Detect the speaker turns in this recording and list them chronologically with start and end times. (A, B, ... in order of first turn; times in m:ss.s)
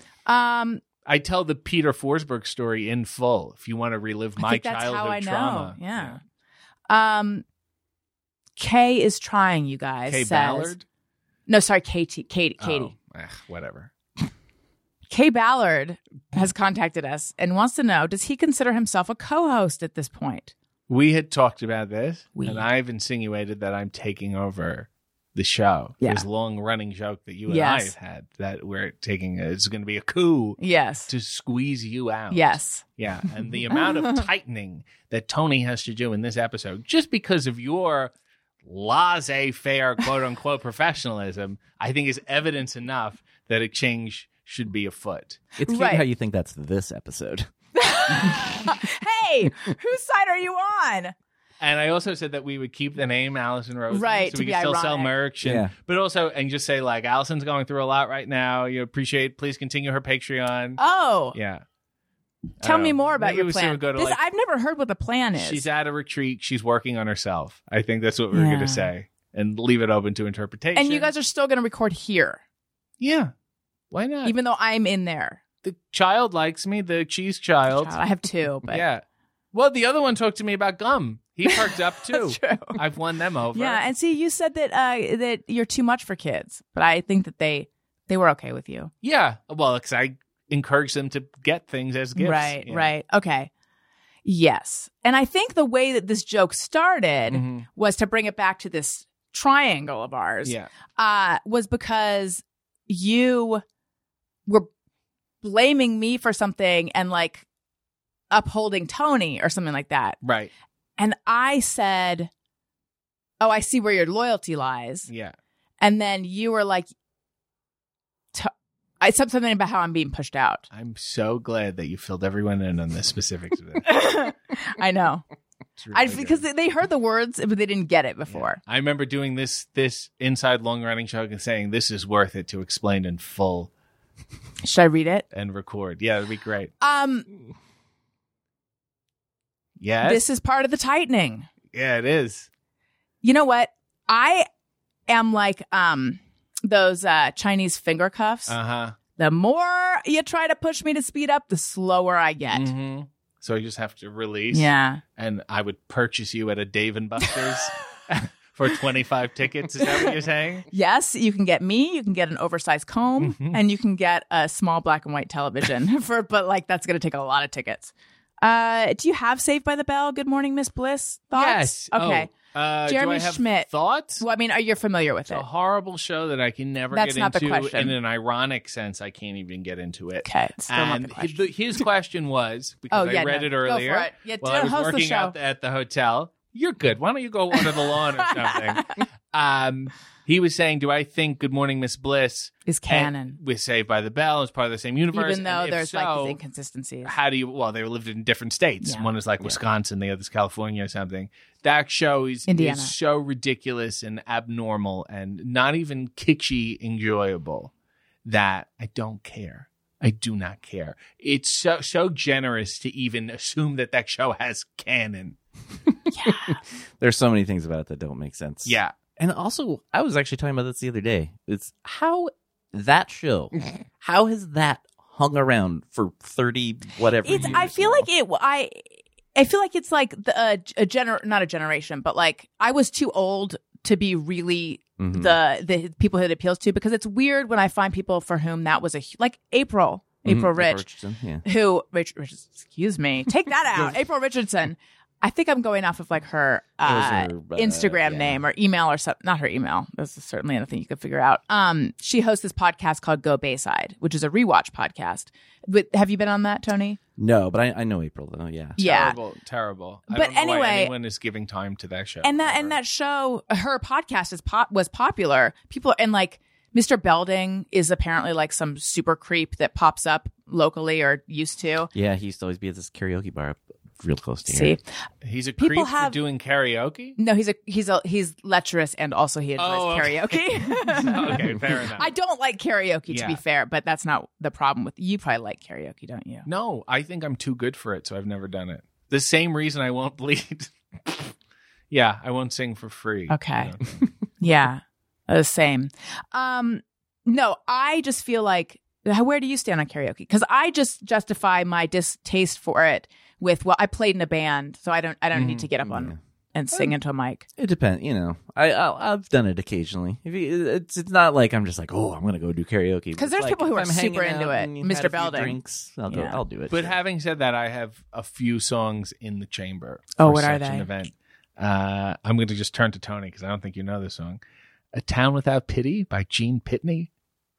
0:00.3-0:00.8 A
0:01.0-0:06.2 B
0:04.4-0:06.2 A
0:06.9-0:07.4 A
0:08.6-0:10.7 A
0:10.1-0:10.8 B
0:11.5-0:12.9 A
0:12.6-0:13.9 B
0:15.1-0:20.5 A
0:20.9-0:38.1 B
0:22.4-0:22.7 A
0:26.0-0:26.3 A
0:27.5-0:27.9 A
0:30.6-0:31.1 A
0:32.3-0:32.8 A
0:33.7-0:34.2 A
0:38.6-0:45.4 B
0:45.6-0:47.5 C
0:45.6-0:46.0 A
0:47.7-0:51.1 A
0:51.6-1:00.8 B
0:53.9-0:55.1 A
0:55.4-0:55.7 C
1:00.8-1:01.4 A
1:01.3-1:01.6 B
1:02.6-1:04.2 B
1:02.6-1:05.6 A
1:05.4-1:11.1 B
1:08.3-1:08.9 A
1:10.7-1:12.4 A
1:13.0-1:13.3 B
1:13.9-1:14.4 B
1:14.2-1:15.4 A
1:15.6-1:18.0 B
1:17.7-1:18.8 A
1:18.7-1:23.8 B
1:21.4-1:22.8 A
1:23.5-1:28.9 A
1:29.0-1:32.9 B
1:32.2-1:33.5 A
1:34.2-1:43.6 A
1:37.3-1:37.7 B
1:45.4-1:47.4 A
1:48.3-1:50.2 A
1:50.2-1:50.5 B
1:51.0-1:52.3 A
1:53.4-1:55.1 A
1:55.1-1:55.4 B
1:55.8-1:56.9 A
1:58.3-2:00.7 A
2:00.7-2:04.0 B
2:03.8-2:05.2 A
2:05.8-2:06.4 B
2:05.9-2:08.6 A
2:08.3-2:13.7 B
2:14.6-2:15.2 A
2:15.3-2:16.7 B
2:16.8-2:17.3 A
2:19.8-2:20.2 B
2:20.0-2:21.5 A
2:21.7-2:22.5 B
2:23.2-2:24.5 A
2:25.1-2:28.6 A
2:28.5-2:29.0 B
2:29.2-2:32.7 A
2:32.5-2:40.7 B
2:34.5-2:35.0 A
2:39.8-2:40.1 A
2:40.7-2:47.9 A
2:43.2-2:43.6 B
2:48.4-2:52.3 A
2:51.3-2:54.2 B
2:52.9-2:53.7 A
2:54.2-2:55.4 A
2:55.3-3:16.4 B
2:56.9-2:58.0 A
3:00.2-3:01.5 A
3:02.9-3:05.4 A
3:07.9-3:09.0 A
3:12.7-3:13.4 A
3:15.1-3:17.1 A
3:17.0-3:27.7 B
3:18.8-3:19.1 A
3:22.5-3:22.9 A
3:28.2-3:35.4 B
3:36.1-3:36.6 A
3:37.0-3:48.1 C
3:38.6-3:38.9 B
3:47.2-3:48.8 A
3:49.4-4:00.8 A
3:55.0-3:55.4 C
4:00.2-4:01.4 C
4:01.4-4:17.0 A
4:06.8-4:08.4 C
4:17.2-4:19.0 C
4:18.8-4:19.2 A
4:18.8-4:22.7 B
4:20.1-4:20.9 A
4:22.2-4:31.9 A
4:31.9-4:34.8 C
4:34.5-4:34.8 A
4:35.2-4:37.2 B
4:35.6-4:36.2 A
4:37.2-4:41.4 A
4:39.6-4:42.1 B
4:42.0-4:46.4 A
4:43.1-4:43.4 B
4:46.4-4:51.3 B
4:51.9-4:54.0 B
4:53.3-4:53.7 A
4:54.4-5:07.4 A
5:05.3-5:05.7 B
5:05.8-5:06.2 C
5:07.6-5:17.0 C
5:13.2-5:15.6 A
5:16.1-5:16.4 A
5:16.7-5:24.4 B
5:20.2-5:20.9 A
5:24.9-5:27.1 B